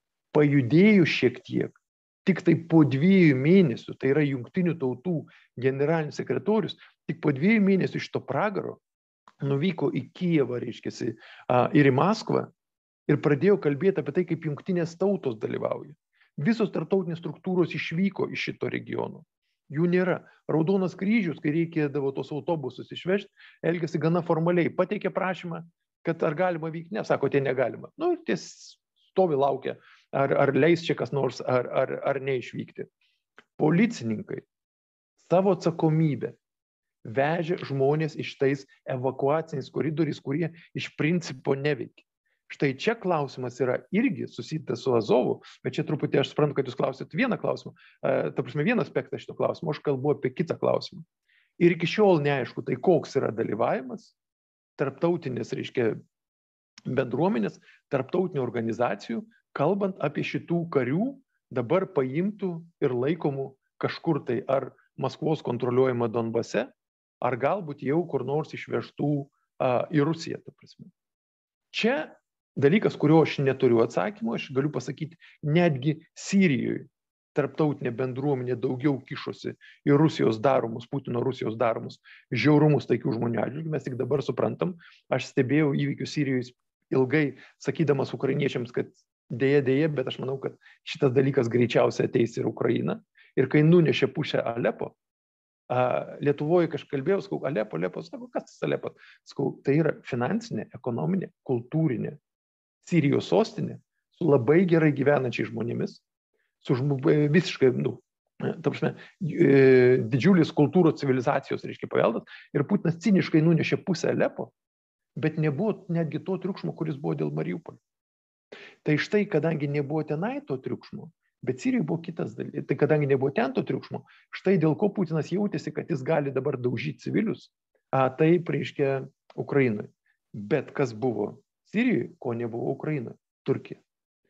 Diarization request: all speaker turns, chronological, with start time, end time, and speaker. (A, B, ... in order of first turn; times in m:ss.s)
0:00.3-0:08.8 A
0:09.4-0:12.5 A
0:13.1-0:32.9 A
0:33.6-0:34.4 A
0:35.2-0:36.4 A
0:37.0-0:51.0 A
0:51.6-0:54.1 A
0:54.8-0:56.0 A
0:56.9-1:06.7 A
1:07.2-1:10.9 A
1:11.7-1:34.9 A
1:35.7-1:42.2 A
1:42.8-1:46.0 A
1:46.6-1:54.5 A
1:55.2-1:57.8 A
1:58.8-2:13.8 A